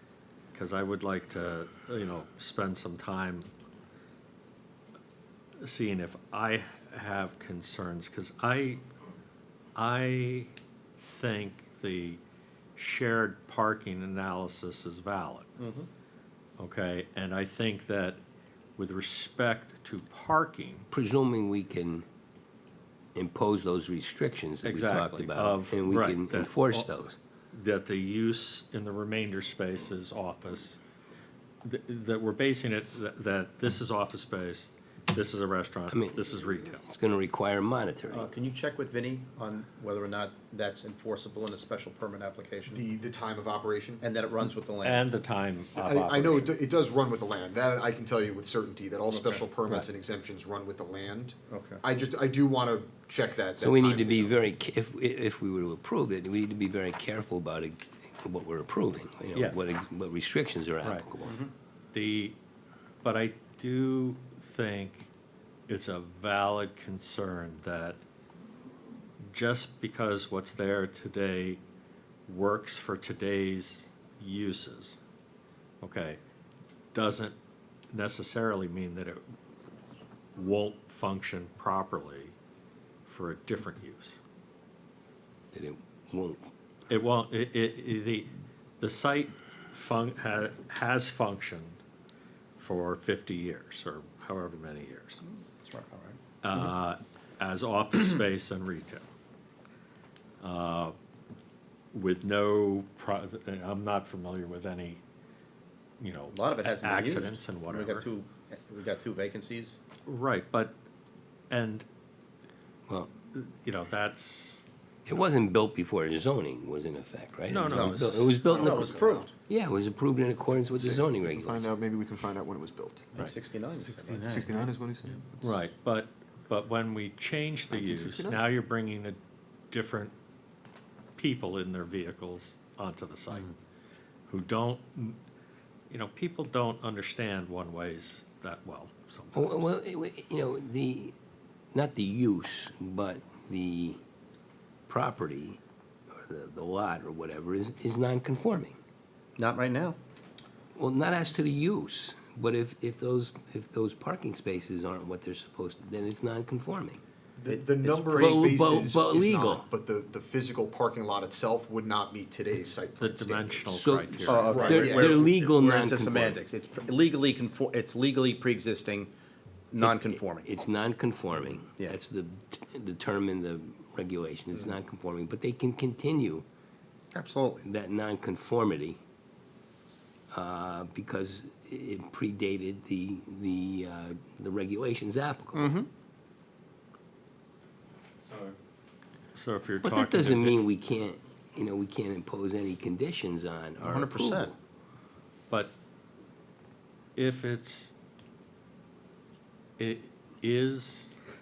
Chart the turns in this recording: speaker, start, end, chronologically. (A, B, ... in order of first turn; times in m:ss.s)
0:00.5-0:03.5 A
0:05.6-0:08.8 A
0:09.8-0:12.2 A
0:12.8-0:15.5 A
0:15.6-0:15.9 B
0:16.6-0:18.2 A
0:18.8-0:20.9 A
0:20.9-0:22.1 C
0:23.2-0:27.2 C
0:24.6-0:26.9 A
0:27.5-0:30.8 A
0:31.6-0:36.8 A
0:35.9-0:36.3 C
0:36.8-0:38.3 C
0:38.1-0:42.8 B
0:42.7-0:44.0 D
0:44.0-0:45.1 B
0:44.8-0:46.5 A
0:45.8-0:54.4 D
0:49.1-0:49.4 B
0:51.5-0:51.8 B
0:53.6-1:01.4 C
1:01.2-1:01.5 B
1:01.9-1:02.4 A
1:03.0-1:05.1 A
1:05.7-1:08.0 A
1:09.3-1:11.6 A
1:12.3-1:15.0 A
1:15.8-1:16.2 A
1:16.9-1:17.4 A
1:17.9-1:19.2 A
1:20.4-1:22.4 A
1:23.0-1:24.2 A
1:25.5-1:26.5 C
1:26.9-1:31.8 A
1:32.6-1:35.2 A
1:35.2-1:36.2 B
1:36.4-1:39.1 A
1:40.4-1:41.0 A
1:41.9-1:45.0 A
1:46.0-1:48.1 A
1:46.3-1:49.8 B
1:50.0-1:50.8 A
1:51.5-1:51.9 A
1:53.3-1:54.6 A
1:55.1-1:59.0 C
1:57.5-1:58.3 A
1:57.7-1:59.3 B
1:58.4-1:59.3 D
1:59.5-2:01.7 C
2:00.8-2:03.3 D
2:03.2-2:04.6 B
2:04.0-2:05.4 D
2:05.4-2:09.2 A
2:09.7-2:10.1 A
2:11.2-2:13.6 A
2:14.3-2:15.2 A
2:15.9-2:19.7 A
2:19.4-2:21.2 C
2:21.7-2:24.0 C
2:24.9-2:25.6 C
2:26.1-2:28.8 C
2:29.4-2:30.0 B
2:30.8-2:37.0 C
2:37.4-2:43.8 D
2:37.5-2:38.8 B
2:38.2-2:39.7 C
2:43.0-2:44.5 A
2:43.7-2:46.4 C
2:44.3-2:49.1 B
2:44.3-2:45.3 D
2:49.7-2:50.5 B
2:49.8-2:56.5 C
2:57.1-2:57.6 B
2:57.6-2:59.0 C
3:00.3-3:05.8 C
3:05.5-3:05.9 B
3:08.2-3:08.6 A
3:09.3-3:10.6 A
3:09.8-3:14.6 C
3:13.8-3:14.5 B
3:17.2-3:18.0 A
3:19.8-3:21.1 A